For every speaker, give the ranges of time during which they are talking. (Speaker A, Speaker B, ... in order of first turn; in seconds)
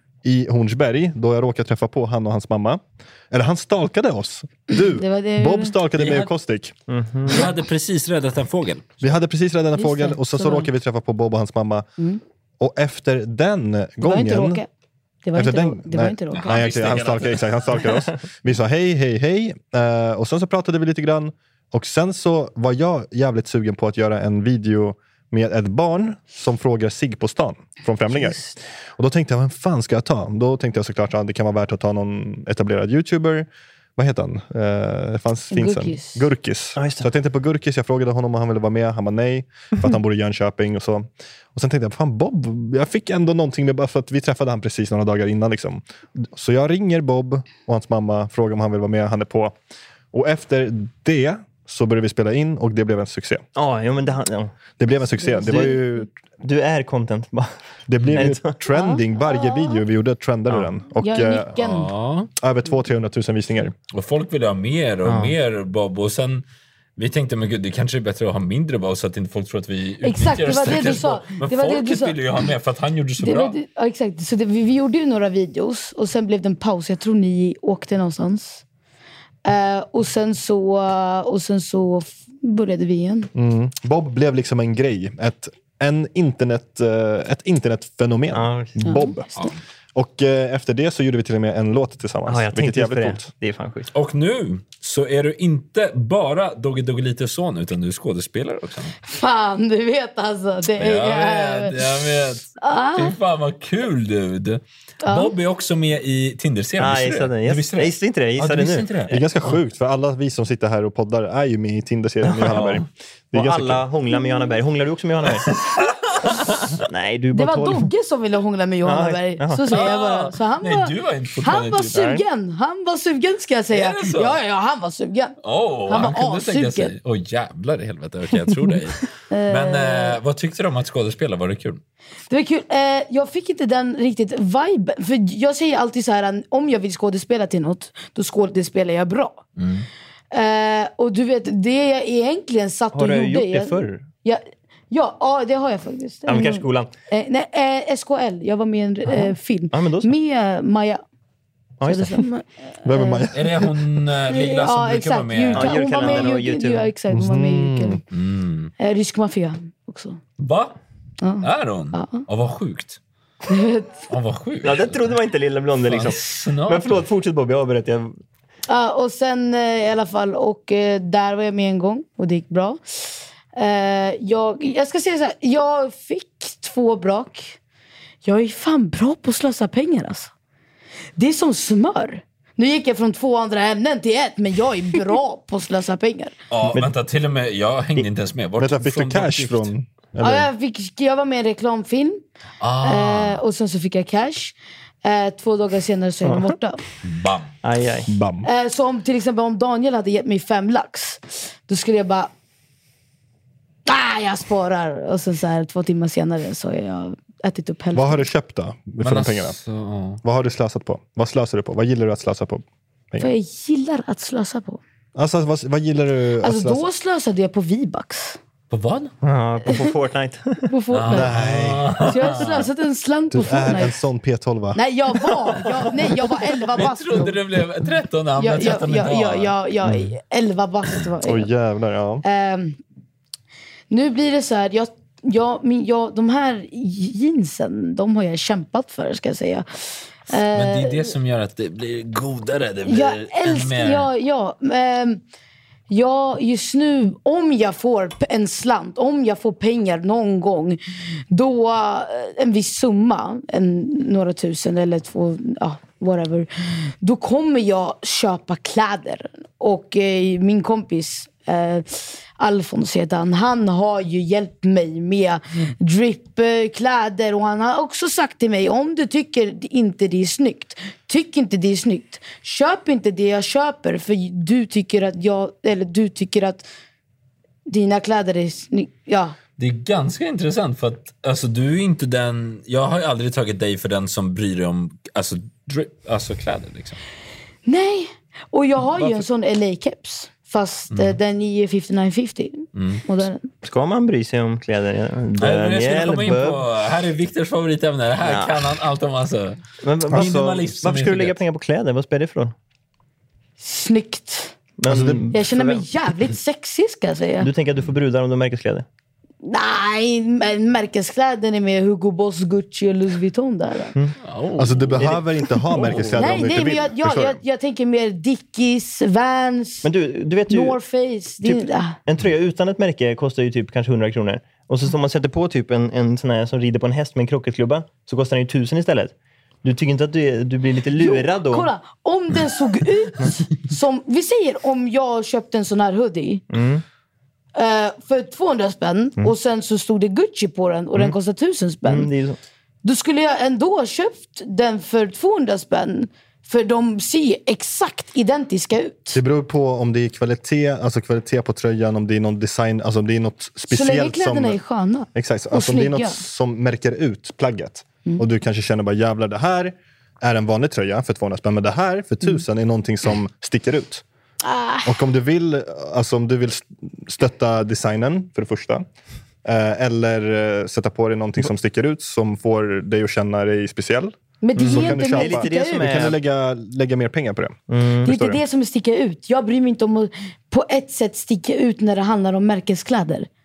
Speaker A: 0.2-6.7, 9.0-11.9, 12.6-14.6, 15.3-49.5, 50.1-53.4, 54.8-56.1, 57.9-61.6, 62.4-63.7, 83.3-89.3, 89.9-93.3, 109.1-113.8, 152.8-153.7, 157.1-158.0, 188.6-190.5, 198.1-198.5, 207.9-209.6, 210.2-213.3, 215.1-216.8, 221.1-222.4, 223.3-224.8, 231.2-232.2, 300.1-300.4, 304.9-305.3, 314.6-317.4, 349.1-354.6, 355.1-364.0, 364.8-368.9, 369.4-378.4
Speaker B: 4.7-5.8, 9.7-10.7, 14.0-14.7, 15.2-16.5, 35.5-36.2, 55.2-55.8, 58.7-59.8, 61.0-61.9, 70.0-72.2, 73.2-78.6, 79.4-83.3, 88.8-89.4, 99.0-103.2, 105.0-105.3, 117.3-125.3, 125.9-126.9, 129.3-130.2, 132.3-139.4, 140.3-151.0, 151.8-153.3, 154.3-158.0, 158.8-160.2, 161.2-162.2, 163.5-164.0, 168.7-177.6, 178.2-180.3, 181.2-186.3, 190.2-192.2, 192.8-196.8, 198.4-202.3, 203.8-208.2, 213.2-214.8, 216.4-218.4, 220.7-221.3, 222.0-223.9, 224.7-227.4, 228.4-231.5, 232.2-232.8, 233.9-241.1, 242.8-245.2, 245.9-250.8, 251.3-276.6, 277.7-279.3, 287.6-293.5, 303.6-304.6, 305.3-307.5, 309.4-313.9, 316.1-319.9, 320.5-321.9, 331.0-336.4, 337.5-342.1, 342.8-349.2, 353.7-356.2, 364.4-365.0, 374.4-375.8, 378.0-383.3
Speaker C: 6.0-6.3, 7.3-8.9, 16.3-17.8, 61.6-62.3, 63.9-66.4, 67.0-73.5, 93.9-98.9, 100.8-109.1, 112.4-112.8, 115.7-116.5, 119.7-122.2, 123.7-124.4, 125.4-131.8, 139.6-139.9, 153.3-156.3, 158.1-158.7, 160.4-160.8, 161.4-163.0, 164.1-165.2, 165.8-167.0, 186.5-189.7, 192.6-193.4, 197.0-197.5, 209.0-210.2, 218.7-219.1, 220.9-222.6, 226.7-229.5, 240.5-244.1, 279.6-287.0, 290.9-291.2, 292.7-293.1, 295.4-301.4, 314.2-315.2, 315.7-316.2
Speaker D: 6.9-7.4, 36.8-37.1, 53.5-54.5, 55.4-55.8, 56.4-57.5, 58.1-58.5, 65.0-65.3, 88.3-88.8, 92.3-93.9, 106.8-109.2, 113.3-115.7, 116.8-117.9, 118.8-119.9, 142.9-144.0, 146.3-146.9, 149.1-150.1, 151.8-152.2, 155.5-156.9, 164.6-168.2, 196.2-196.5, 197.6-198.1, 219.2-220.6, 293.6-296.6, 298.2-298.6, 299.8-302.5, 304.8-305.8, 307.4-308.9, 315.0-315.2, 315.7-316.1, 319.8-320.8, 321.4-331.7, 336.5-336.8, 341.8-342.4, 374.6-376.2, 377.7-378.1